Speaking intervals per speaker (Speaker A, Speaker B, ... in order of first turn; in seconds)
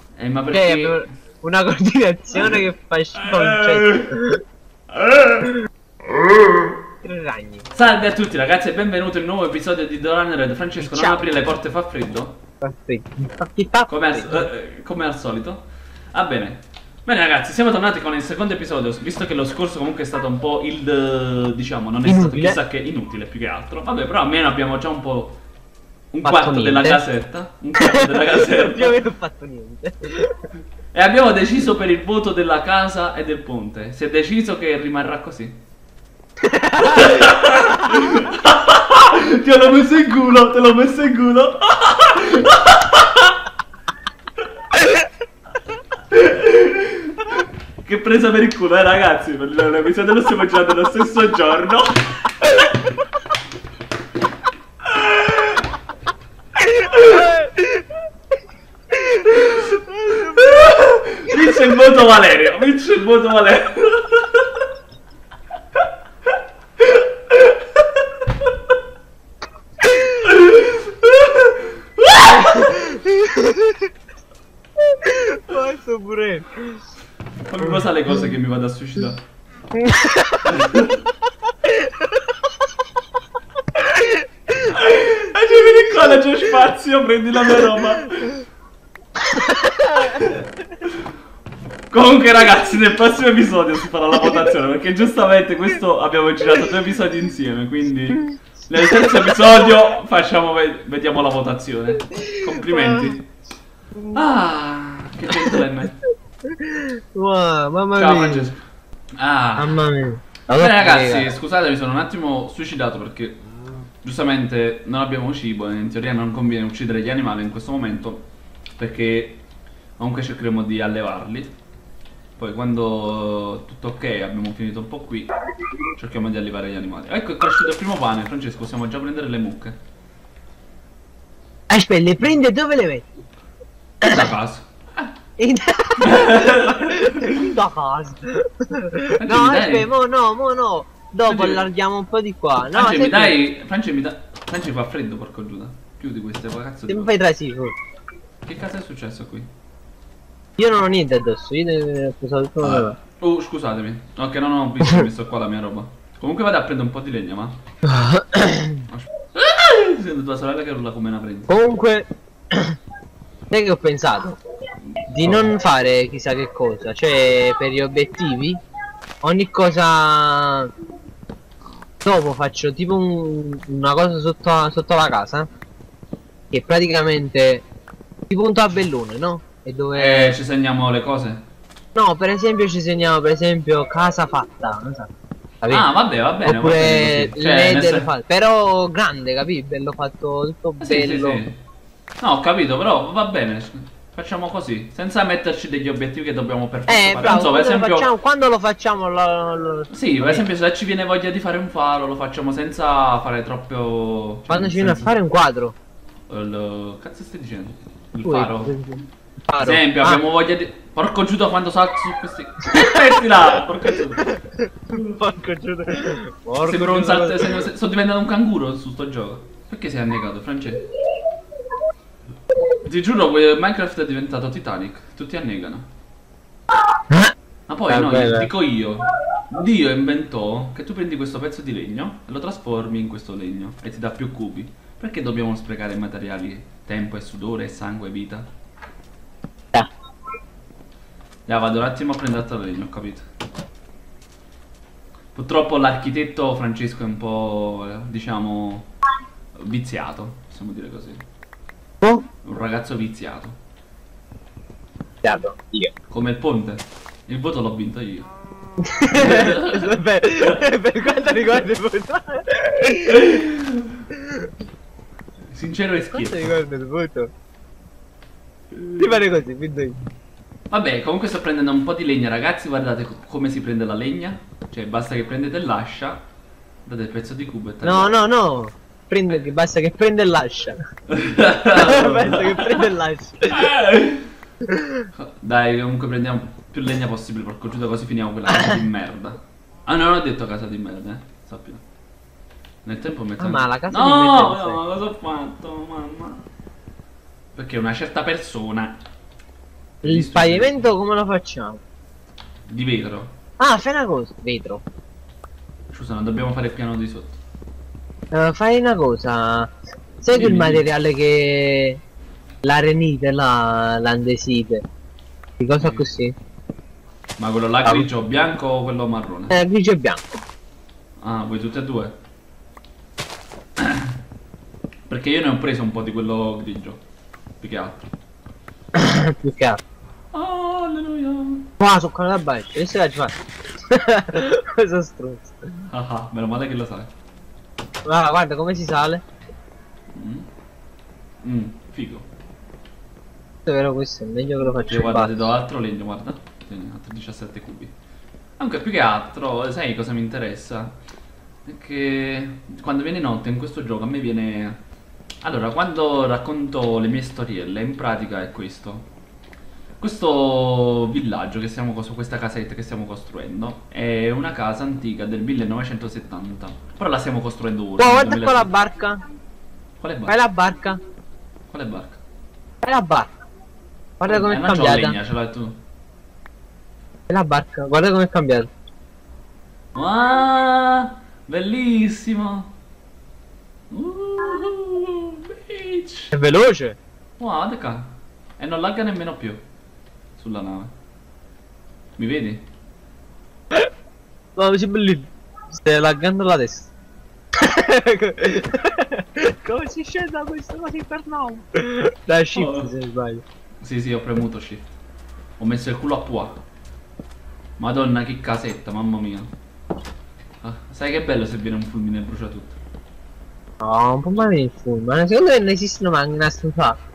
Speaker A: 0.2-1.1, 2.3-2.6, 3.2-4.1, 4.9-5.5, 7.7-12.4, 13.9-25.4, 26.1-29.0, 30.9-35.6, 36.8-43.5, 46.1-53.0, 54.9-55.6, 56.9-57.4, 59.2-64.7, 66.8-68.5, 70.2-72.8, 77.5-79.2, 80.4-81.1, 84.6-88.3, 90.1-91.0, 91.9-103.3, 104.1-106.0, 107.9-108.6, 109.2-109.8, 110.5-113.4, 114.0-118.2, 118.8-119.4, 120.0-121.5, 122.4-125.3, 126.0-129.8, 134.0-135.1, 136.0-137.3, 139.2-139.9, 141.3-141.7, 142.7-147.1, 148.4-149.5, 152.6-157.6, 158.9-161.6, 165.2-165.6, 179.9-181.4, 185.7-188.1, 190.8-191.6, 192.2-198.1, 199.9-205.1, 206.3-208.7, 209.6-214.2, 216.6-220.9, 222.8-225.9, 227.7-238.5, 241.5-243.2, 245.3-248.9, 249.6-251.2, 252.4-253.6, 256.1-258.3, 259.1-259.9, 263.1-264.0, 265.5-266.6, 270.7-276.2, 276.9-278.2, 281.1-282.8, 283.5-284.3, 285.1-291.8, 292.9-296.4, 297.6-299.0, 300.0-300.9, 302.7-303.3, 305.9-307.4, 310.3-310.8, 315.8-316.1, 317.4-319.6, 321.2-322.2, 323.8-324.2, 325.1-327.0, 327.6-328.1, 330.3-331.7, 335.9-337.1, 340.1-340.5, 341.4-342.2, 344.9-347.9, 348.6-350.9, 351.6-354.8, 355.4-359.1, 360.0-368.7, 370.0-370.4, 371.7-372.2, 374.2-375.8, 379.9-382.7, 383.9-386.3, 387.4-389.6, 390.4-390.9, 392.2-392.7, 402.6-402.9, 403.8-404.9, 405.6-406.6, 407.8-409.5, 410.6-412.8
Speaker B: 0.5-4.4, 7.0-7.7, 10.8-11.2, 12.6-14.5, 22.1-22.6, 26.2-27.0, 27.8-30.4, 36.5-37.0, 57.2-57.6, 60.0-60.6, 69.9-70.2, 72.4-73.8, 74.9-76.8, 79.8-80.5, 81.7-82.2, 83.8-84.2, 89.2-90.4, 98.8-99.4, 102.2-103.1, 106.5-108.5, 109.6-111.3, 131.7-133.1, 135.4-143.4, 146.9-147.8, 150.6-153.0, 157.8-158.9, 161.5-162.8, 163.5-164.4, 165.1-168.6, 169.2-170.7, 172.0-175.5, 176.5-177.7, 178.3-180.4, 181.9-185.1, 186.4-191.4, 196.9-200.4, 204.5-205.8, 208.2-210.2, 214.2-217.6, 227.9-228.5, 252.0-252.3, 255.2-255.9, 258.8-263.4, 266.1-267.3, 268.9-270.0, 277.8-280.8, 281.6-283.7, 284.7-285.1, 293.4-294.8, 300.0-301.8, 303.6-304.8, 308.3-312.0, 312.6-314.8, 315.6-316.4, 319.5-320.4, 328.9-329.8, 331.8-333.3, 333.9-335.6, 338.1-339.2, 343.7-345.5, 368.0-369.2, 370.3-371.0, 372.8-373.3, 374.2-375.2, 377.3-378.7, 386.3-387.0, 394.6-396.9, 397.6-403.4, 413.8-417.0